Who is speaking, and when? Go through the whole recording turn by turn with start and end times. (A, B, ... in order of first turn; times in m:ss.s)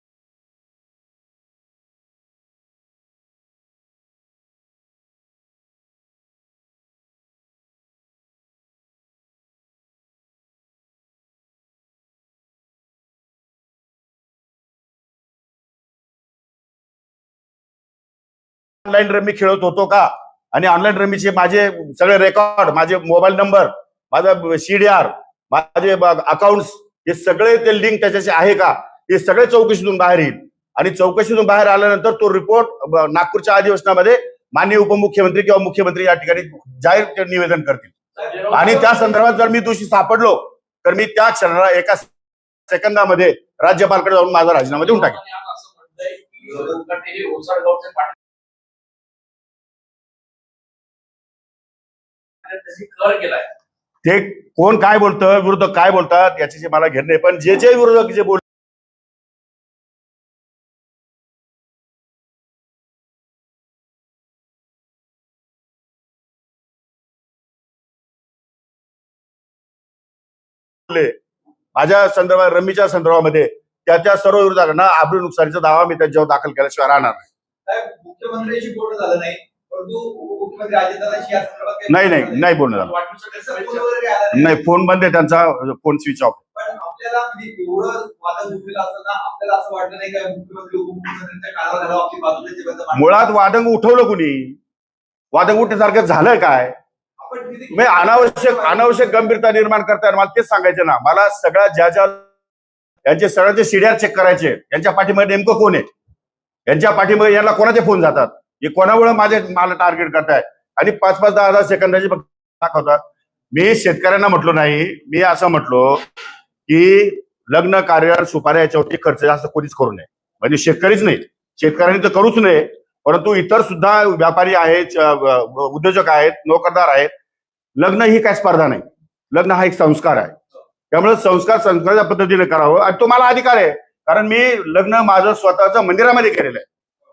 0:18.8-0:37.9 A
0:38.2-0:39.0 B
0:38.5-0:42.1 A
0:42.7-0:45.2 A
0:44.8-0:48.1 B
0:52.4-0:53.5 B
0:54.0-0:58.4 A
1:10.9-1:11.2 A
1:11.8-1:17.3 A
1:17.7-1:22.5 C
1:21.9-1:22.9 A
1:22.7-1:23.9 B
1:23.3-1:24.6 C
1:24.3-1:26.4 A
1:26.6-1:33.1 C
1:32.9-1:34.6 A
1:35.3-1:36.8 A
1:37.2-1:39.2 C
1:37.7-1:42.3 A
1:43.0-1:45.9 A
1:46.7-1:56.0 A
1:56.7-2:07.1 A
2:07.8-2:10.4 A
2:10.9-2:16.7 A